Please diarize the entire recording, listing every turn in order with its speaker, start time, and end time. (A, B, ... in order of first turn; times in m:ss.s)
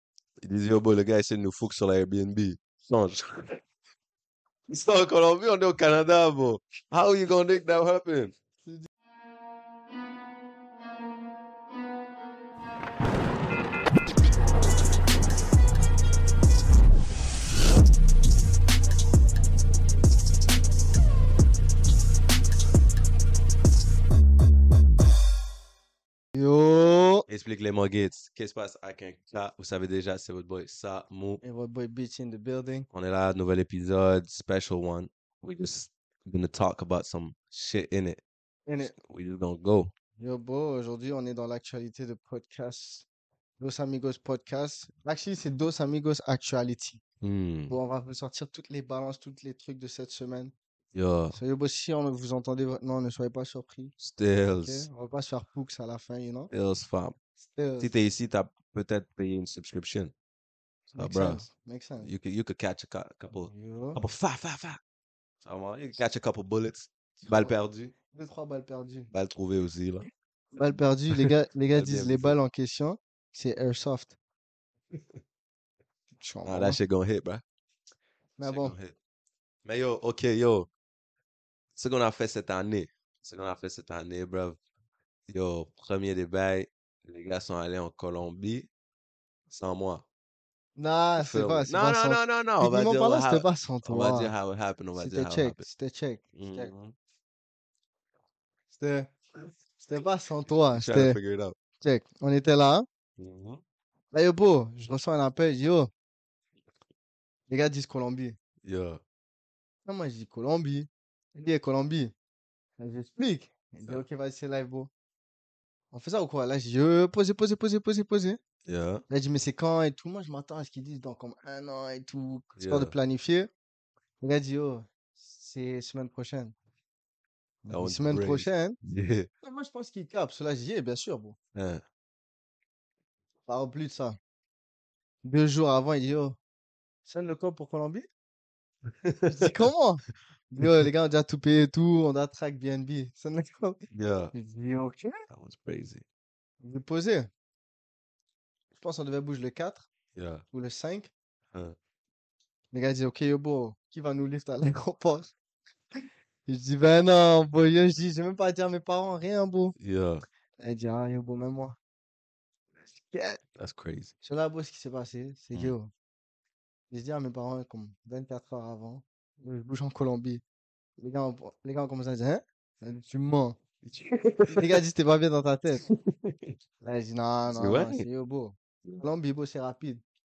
0:00.4-0:03.6 A
0:04.7-0:08.3 A
0:26.3-0:27.2 B
0:27.3-0:31.4 A
0:31.4-0:32.9 B
0:32.9-0:38.2 A
0:38.7-0:38.9 B
0:38.8-0:39.9 A
0:40.2-0:43.1 B
0:43.6-0:47.0 B
0:47.2-0:47.8 A
0:47.7-0:50.5 B
0:50.9-0:51.4 A
0:51.3-0:53.9 B
0:54.0-0:54.9 A
0:54.6-0:56.5 B
0:56.5-0:57.1 A
0:57.4-0:57.9 B
0:57.8-1:00.1 A
1:00.9-1:01.5 A
1:00.9-1:02.1 B
1:02.0-1:04.8 A
1:03.5-1:04.0 B
1:05.4-1:07.9 A
1:07.2-1:07.5 B
1:08.1-1:09.1 B
1:09.1-1:10.1 A
1:10.6-1:14.2 B
1:11.1-1:12.4 A
1:16.2-1:16.8 B
1:16.4-1:17.4 A
1:18.4-1:18.8 B
1:18.4-1:18.9 A
1:19.6-1:20.7 A
1:21.7-1:24.6 A
1:25.3-1:28.7 A
1:29.5-1:30.0 A
1:30.8-1:34.3 B
1:31.2-1:35.6 A
1:35.0-1:36.7 B
1:36.3-1:36.9 A
1:38.7-1:39.1 B
1:39.8-1:41.2 B
1:40.7-1:41.6 A
1:41.8-1:42.8 B
1:43.2-1:43.6 A
1:44.1-1:45.9 B
1:47.5-1:48.4 B
1:48.6-1:49.0 A
1:49.8-1:52.1 B
1:52.8-1:54.9 B
1:55.9-1:58.4 B
1:58.6-1:59.0 A
1:59.1-2:03.5 B
2:02.6-2:02.9 A
2:04.2-2:06.5 B
2:07.6-2:08.8 B
2:07.7-2:09.3 A
2:09.4-2:11.4 B
2:11.5-2:11.8 A
2:13.5-2:14.2 B
2:15.2-2:16.4 B
2:17.0-2:18.1 B
2:19.0-2:19.5 A
2:19.3-2:23.8 B
2:23.9-2:24.3 A
2:24.3-2:25.2 B
2:25.3-2:26.0 A
2:26.6-2:27.3 B
2:28.8-2:29.9 B
2:30.1-2:30.4 A
2:30.5-2:31.1 B
2:32.7-2:35.3 B
2:36.5-2:39.8 B
2:39.8-2:40.2 A
2:40.6-2:41.8 B
2:42.9-2:43.4 B
2:43.6-2:44.1 A
2:44.2-2:45.9 B
2:46.9-2:50.4 B
2:51.0-2:53.6 B
2:53.8-2:54.8 A
2:54.6-2:55.8 B
2:55.9-2:56.5 A
2:56.8-3:00.0 B
2:57.5-2:58.1 A